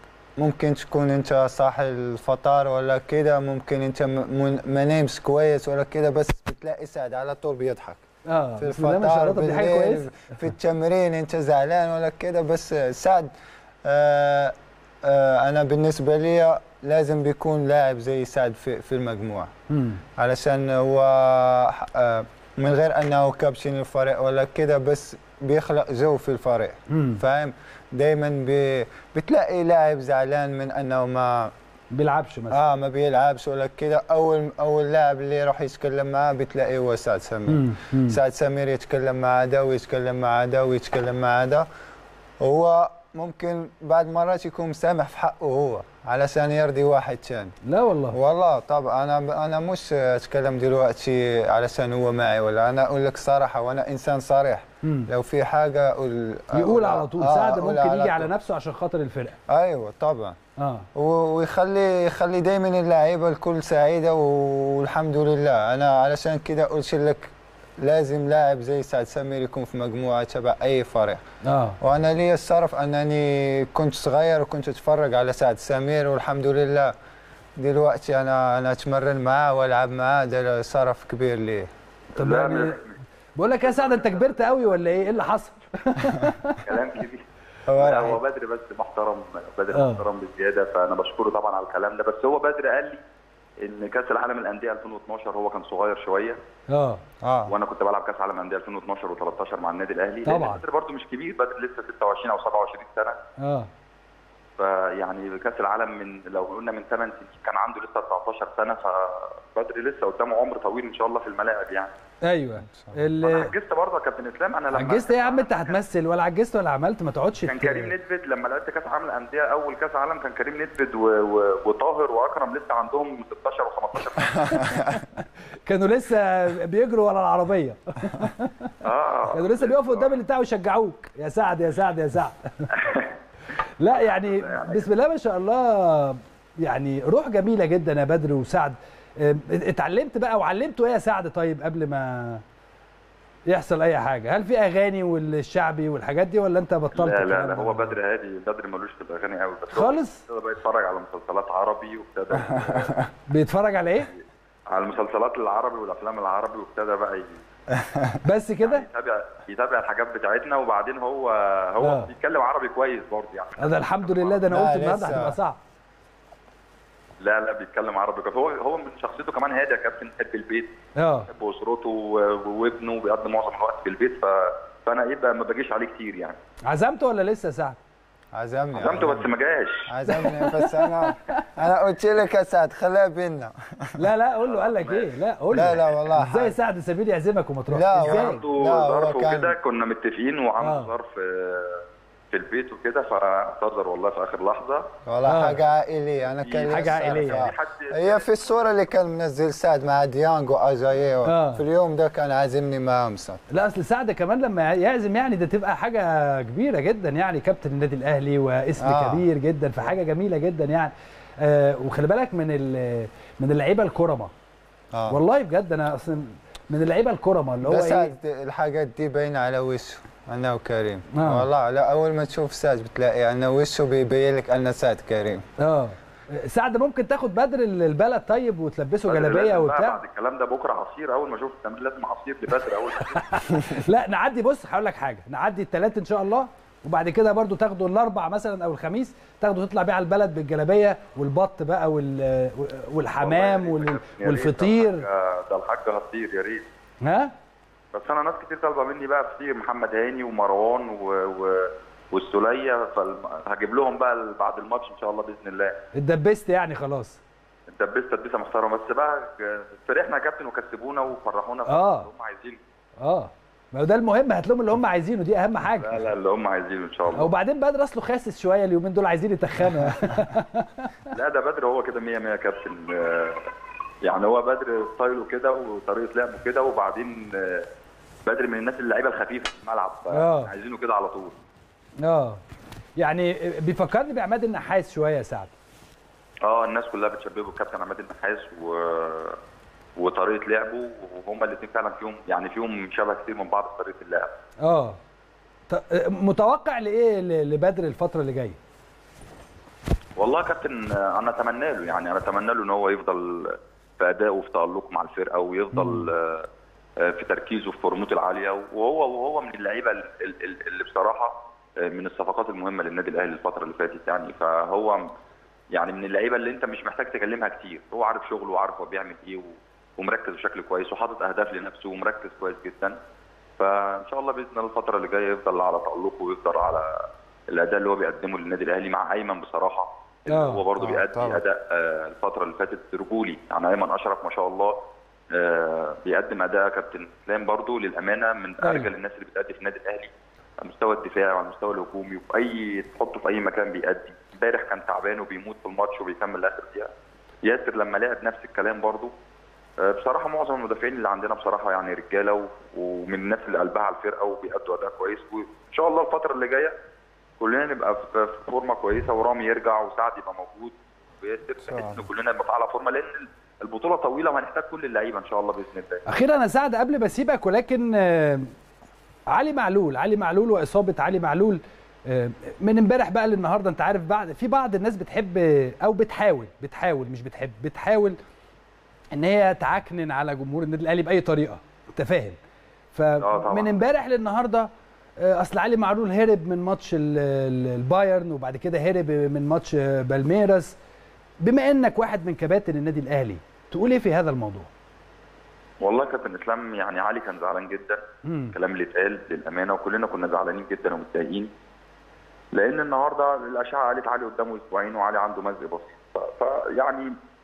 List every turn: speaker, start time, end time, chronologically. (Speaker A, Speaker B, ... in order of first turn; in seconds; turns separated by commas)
Speaker A: 0.4-8.0, Speaker B: 8.2-10.1, Speaker A: 8.6-13.3, Speaker A: 13.8-19.5, Speaker B: 19.7-20.0, Speaker A: 20.2-31.5, Speaker B: 26.9-27.2, Speaker B: 31.9-32.6, Speaker A: 32.5-41.6, Speaker B: 37.5-38.2, Speaker A: 42.4-47.5, Speaker B: 47.6-48.2, Speaker A: 48.1-58.3, Speaker B: 54.8-55.1, Speaker B: 56.5-59.4, Speaker A: 59.5-60.4, Speaker B: 60.6-60.9, Speaker A: 60.9-71.2, Speaker B: 71.4-71.8, Speaker A: 71.8-76.9, Speaker A: 77.6-81.7, Speaker B: 82.2-82.8, Speaker C: 82.2-85.4, Speaker B: 83.4-86.6, Speaker C: 86.6-93.0, Speaker A: 87.7-88.2, Speaker B: 89.7-90.0, Speaker C: 93.6-96.4, Speaker B: 96.7-97.0, Speaker A: 97.2-97.5, Speaker C: 97.5-103.2, Speaker B: 100.2-100.6, Speaker B: 103.4-103.7, Speaker C: 104.6-111.9, Speaker B: 112.2-113.5, Speaker A: 112.7-113.0, Speaker C: 113.2-115.8, Speaker B: 114.7-117.9, Speaker C: 117.4-124.5, Speaker B: 124.5-128.7, Speaker C: 128.8-130.2, Speaker B: 129.3-132.7, Speaker C: 132.7-133.1, Speaker B: 133.8-142.4, Speaker C: 133.9-134.9, Speaker B: 143.5-147.9, Speaker C: 146.9-153.0, Speaker B: 149.7-150.2, Speaker A: 152.3-153.1, Speaker B: 153.3-154.1, Speaker C: 154.1-157.4, Speaker A: 157.7-158.2, Speaker B: 158.2-158.8, Speaker C: 158.6-164.5, Speaker B: 161.8-162.1, Speaker B: 163.6-165.6, Speaker A: 164.5-165.4, Speaker C: 167.2-170.7, Speaker B: 171.0-171.3, Speaker C: 171.3-176.4, Speaker B: 176.7-177.8, Speaker A: 178.3-179.3, Speaker C: 178.8-179.9, Speaker A: 179.9-184.0, Speaker B: 180.1-181.4, Speaker B: 184.0-188.4, Speaker C: 184.4-185.1, Speaker A: 185.5-186.5, Speaker A: 187.7-189.6, Speaker C: 188.0-194.9, Speaker B: 190.6-190.9, Speaker A: 195.0-203.4, Speaker B: 195.2-195.6, Speaker C: 196.4-198.3, Speaker B: 196.7-197.5, Speaker B: 201.2-201.6, Speaker B: 203.5-214.3, Speaker A: 208.8-209.3, Speaker A: 214.9-215.2, Speaker B: 215.1-218.1, Speaker A: 217.6-225.4, Speaker B: 221.1-221.4, Speaker B: 225.6-230.0, Speaker C: 229.1-233.6, Speaker B: 233.1-245.0, Speaker C: 243.2-246.6, Speaker B: 247.0-247.3, Speaker C: 247.9-255.7, Speaker B: 255.9-257.2, Speaker C: 257.7-262.6, Speaker B: 261.7-262.1, Speaker B: 263.0-266.0, Speaker C: 265.7-267.3, Speaker B: 267.1-270.9, Speaker C: 271.1-273.5, Speaker C: 274.0-277.7, Speaker C: 278.2-281.4, Speaker B: 280.1-280.5, Speaker B: 282.0-282.4, Speaker B: 283.0-285.5, Speaker C: 286.4-289.4, Speaker C: 290.0-294.3, Speaker B: 294.6-295.0, Speaker B: 295.7-298.6, Speaker C: 300.2-306.5, Speaker B: 305.7-306.1, Speaker C: 307.0-315.0, Speaker C: 315.7-322.9, Speaker C: 323.6-326.9, Speaker C: 327.5-334.8, Speaker B: 330.3-330.6, Speaker A: 330.8-331.4, Speaker C: 335.3-340.1, Speaker B: 338.6-338.9, Speaker C: 340.6-346.9, Speaker C: 347.4-349.1, Speaker C: 349.8-356.7, Speaker C: 357.4-366.0, Speaker A: 361.7-362.0, Speaker B: 366.1-368.5, Speaker B: 369.3-378.2, Speaker B: 379.1-382.4, Speaker B: 382.9-390.8, Speaker C: 383.2-383.8, Speaker B: 391.4-394.7, Speaker C: 395.8-398.0, Speaker B: 398.2-398.5, Speaker C: 398.5-401.5, Speaker C: 402.5-407.1